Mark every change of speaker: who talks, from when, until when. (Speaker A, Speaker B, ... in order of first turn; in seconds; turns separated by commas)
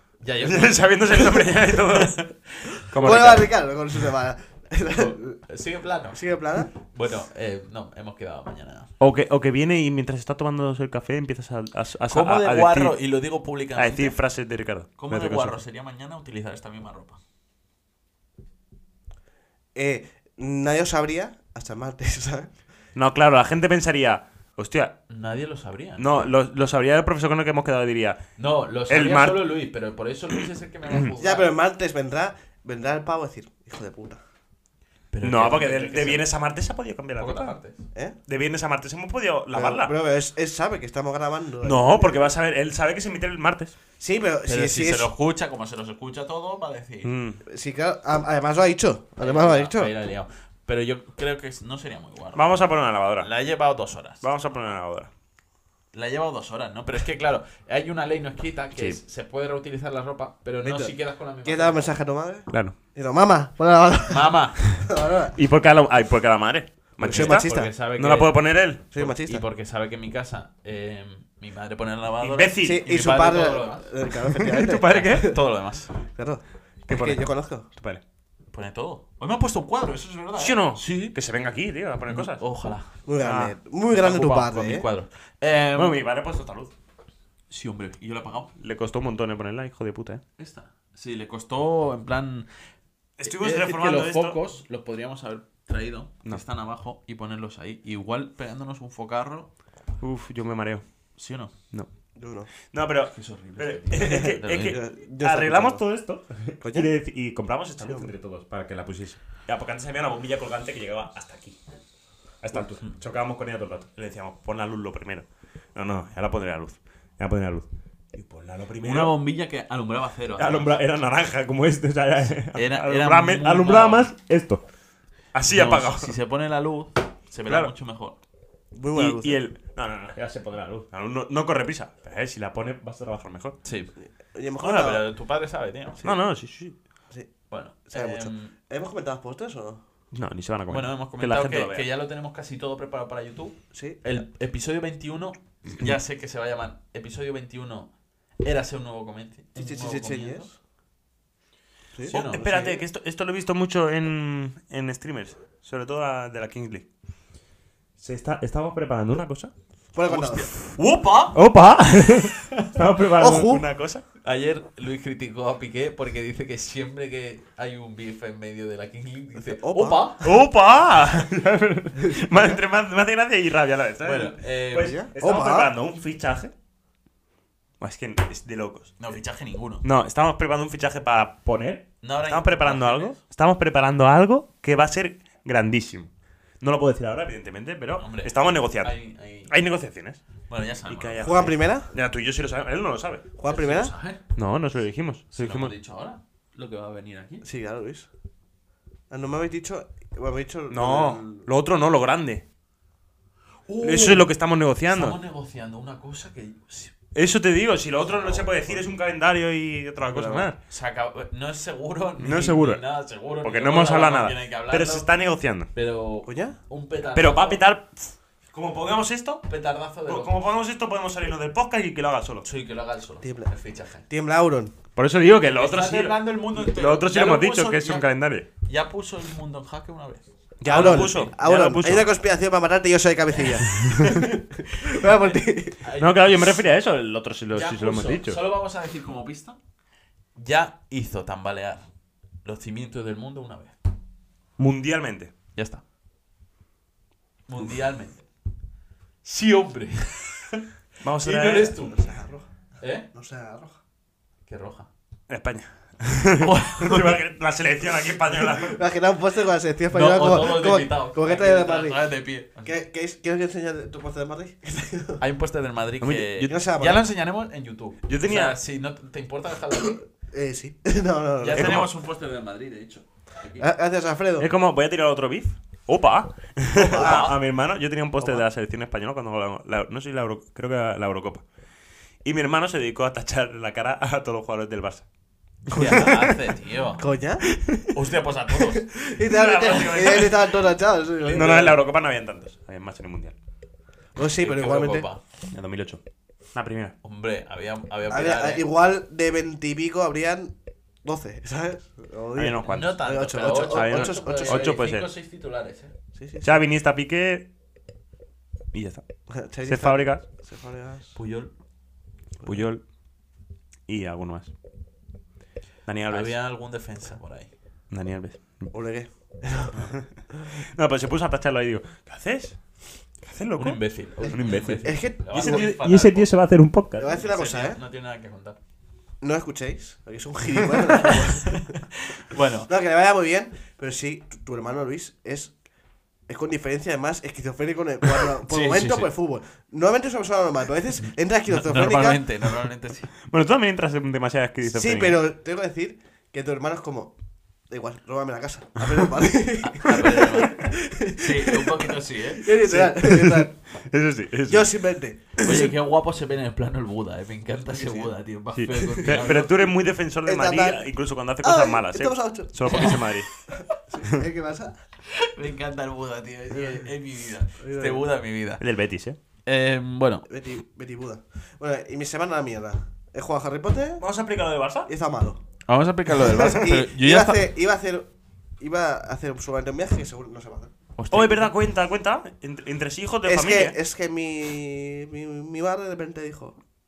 Speaker A: 0.2-2.3, Speaker B: 0.4-3.5, Speaker C: 3.0-5.4, Speaker A: 4.9-8.9, Speaker C: 6.1-6.7, Speaker B: 9.0-13.0, Speaker A: 12.1-14.2, Speaker B: 13.8-15.6, Speaker A: 15.0-17.2, Speaker C: 19.8-22.6, Speaker B: 22.9-25.0, Speaker A: 25.1-26.3, Speaker B: 26.0-28.2, Speaker A: 28.4-31.5, Speaker B: 28.9-29.5, Speaker C: 31.2-34.2, Speaker A: 35.1-36.3, Speaker B: 35.2-37.6, Speaker A: 37.2-37.9, Speaker B: 38.3-40.0, Speaker C: 39.5-42.3, Speaker B: 41.6-43.8, Speaker C: 44.0-45.1, Speaker A: 44.5-47.1, Speaker B: 47.0-47.4, Speaker C: 47.4-49.9, Speaker A: 49.2-52.6, Speaker B: 52.4-53.3, Speaker A: 53.2-54.2, Speaker B: 54.2-55.1, Speaker A: 55.9-61.8, Speaker C: 60.6-65.4, Speaker B: 62.5-62.8, Speaker A: 64.1-64.6, Speaker B: 65.3-68.8, Speaker A: 67.0-75.9, Speaker C: 67.0-67.7, Speaker C: 68.9-69.4, Speaker B: 72.2-72.8, Speaker C: 72.6-75.4, Speaker B: 74.3-75.4, Speaker C: 76.0-77.7, Speaker B: 76.9-78.0, Speaker A: 78.5-81.1, Speaker B: 80.4-82.4, Speaker A: 82.1-82.9, Speaker C: 83.1-84.9, Speaker B: 83.2-83.5, Speaker A: 83.9-86.0, Speaker B: 85.8-86.7, Speaker A: 87.5-88.5, Speaker B: 88.6-90.2, Speaker A: 90.4-92.5, Speaker B: 93.2-94.4, Speaker A: 93.2-99.5, Speaker B: 100.0-100.8, Speaker A: 101.2-101.5, Speaker C: 102.2-102.5, Speaker B: 102.7-111.6, Speaker A: 103.1-104.8, Speaker C: 104.0-105.8, Speaker C: 106.6-106.9, Speaker C: 107.8-108.1, Speaker B: 112.4-119.1, Speaker A: 118.8-120.8, Speaker B: 120.4-124.6, Speaker A: 122.5-124.1, Speaker B: 125.3-126.1, Speaker A: 125.5-128.2, Speaker C: 128.7-129.4, Speaker B: 128.9-133.6, Speaker A: 133.6-133.9, Speaker C: 134.0-135.0, Speaker A: 134.6-136.2, Speaker B: 136.0-136.8, Speaker A: 137.5-138.5, Speaker C: 137.9-139.8, Speaker B: 140.1-141.9, Speaker A: 140.7-150.5, Speaker C: 143.7-144.0, Speaker C: 149.6-150.5, Speaker C: 151.9-152.8, Speaker A: 152.1-152.7, Speaker B: 152.1-156.9, Speaker B: 158.0-159.5, Speaker C: 159.9-160.5, Speaker A: 160.1-161.4, Speaker B: 161.3-164.0, Speaker C: 163.2-163.7, Speaker A: 164.2-170.3, Speaker C: 169.4-170.1, Speaker B: 170.2-176.5, Speaker C: 172.1-172.6, Speaker A: 174.0-175.0, Speaker C: 174.8-175.7, Speaker B: 177.8-179.0, Speaker A: 179.0-179.8, Speaker B: 179.8-186.1, Speaker A: 182.0-183.2, Speaker B: 186.6-190.2, Speaker A: 188.0-189.5, Speaker A: 190.5-191.6, Speaker B: 190.9-193.2, Speaker C: 191.2-191.9, Speaker C: 193.4-193.9, Speaker A: 193.4-194.2, Speaker B: 194.3-195.7, Speaker A: 195.3-197.5, Speaker C: 197.4-198.1, Speaker C: 199.1-201.5, Speaker B: 200.7-202.4, Speaker A: 203.7-204.3, Speaker B: 203.8-205.2, Speaker A: 204.9-206.9, Speaker B: 207.2-210.6, Speaker A: 208.0-208.9, Speaker C: 210.1-210.5, Speaker A: 210.7-215.1, Speaker B: 212.2-212.8, Speaker B: 213.4-215.7, Speaker A: 215.7-217.6, Speaker C: 216.3-216.6, Speaker B: 217.2-219.5, Speaker A: 219.5-220.4, Speaker B: 220.1-222.5, Speaker A: 222.4-224.1, Speaker C: 223.2-223.5, Speaker C: 224.1-224.7, Speaker B: 225.0-228.5, Speaker A: 225.5-228.1, Speaker A: 228.6-231.3, Speaker B: 230.6-232.1, Speaker C: 230.7-235.8, Speaker B: 233.9-234.2, Speaker A: 233.9-234.3, Speaker A: 234.9-236.4, Speaker B: 236.0-238.4, Speaker A: 237.5-239.6, Speaker A: 240.4-241.9, Speaker A: 242.4-243.8, Speaker B: 244.6-245.3, Speaker A: 245.6-245.8, Speaker A: 247.5-248.3, Speaker A: 249.2-250.6, Speaker B: 251.0-251.8, Speaker A: 251.2-252.1, Speaker C: 251.8-252.5, Speaker A: 252.8-253.1, Speaker C: 253.1-253.8, Speaker A: 254.5-254.9, Speaker B: 255.3-258.8, Speaker A: 256.4-257.2, Speaker C: 258.5-262.1, Speaker A: 259.9-262.8, Speaker C: 262.6-265.2, Speaker A: 265.2-270.0, Speaker B: 266.0-266.6, Speaker C: 266.5-267.0, Speaker B: 268.1-268.6, Speaker C: 269.7-271.9, Speaker A: 271.4-273.7, Speaker B: 271.5-271.9, Speaker C: 273.6-274.5, Speaker B: 274.4-281.4, Speaker C: 276.7-277.3, Speaker A: 276.8-277.4, Speaker B: 282.2-285.1, Speaker A: 285.7-287.1, Speaker C: 285.7-286.3, Speaker C: 287.0-287.5, Speaker B: 287.5-287.9, Speaker A: 287.9-288.9, Speaker C: 288.7-291.8, Speaker B: 289.2-290.6, Speaker A: 291.2-291.7, Speaker B: 291.3-293.3, Speaker C: 294.2-295.1, Speaker A: 294.4-295.2, Speaker B: 295.5-296.0, Speaker B: 296.5-296.9, Speaker A: 297.0-298.6, Speaker C: 298.1-304.8, Speaker B: 302.4-305.1, Speaker A: 302.6-305.9, Speaker C: 306.1-306.6, Speaker B: 306.4-307.5, Speaker B: 308.7-309.0, Speaker C: 309.3-311.1, Speaker B: 309.6-310.2, Speaker A: 311.1-311.5, Speaker B: 312.4-312.8, Speaker B: 313.9-314.5, Speaker B: 315.9-316.4, Speaker A: 316.1-317.5, Speaker B: 317.9-318.7, Speaker C: 318.7-319.9, Speaker B: 320.0-322.6, Speaker B: 323.2-327.1, Speaker A: 323.6-326.3, Speaker C: 324.8-325.7, Speaker C: 327.0-327.8, Speaker A: 327.1-328.6, Speaker C: 329.2-331.8, Speaker A: 331.1-332.7, Speaker C: 332.7-335.6, Speaker C: 336.3-342.2, Speaker A: 338.4-339.1, Speaker A: 341.5-343.1, Speaker B: 343.3-345.2, Speaker C: 344.6-347.1, Speaker C: 347.7-353.6, Speaker A: 349.6-352.5, Speaker B: 352.6-355.7, Speaker C: 354.5-355.6, Speaker A: 355.4-359.6, Speaker C: 357.7-358.1, Speaker B: 358.6-363.3, Speaker C: 358.8-359.3, Speaker C: 360.2-360.9, Speaker C: 361.4-364.8, Speaker A: 362.7-363.0, Speaker A: 365.1-368.6, Speaker C: 366.5-366.9, Speaker C: 367.6-368.0, Speaker B: 368.6-369.2, Speaker A: 369.4-370.3, Speaker C: 370.3-374.0, Speaker B: 374.0-374.9, Speaker C: 374.9-375.4, Speaker A: 375.7-377.4, Speaker C: 376.2-380.7, Speaker A: 381.0-381.5, Speaker B: 381.1-383.8, Speaker C: 383.2-386.6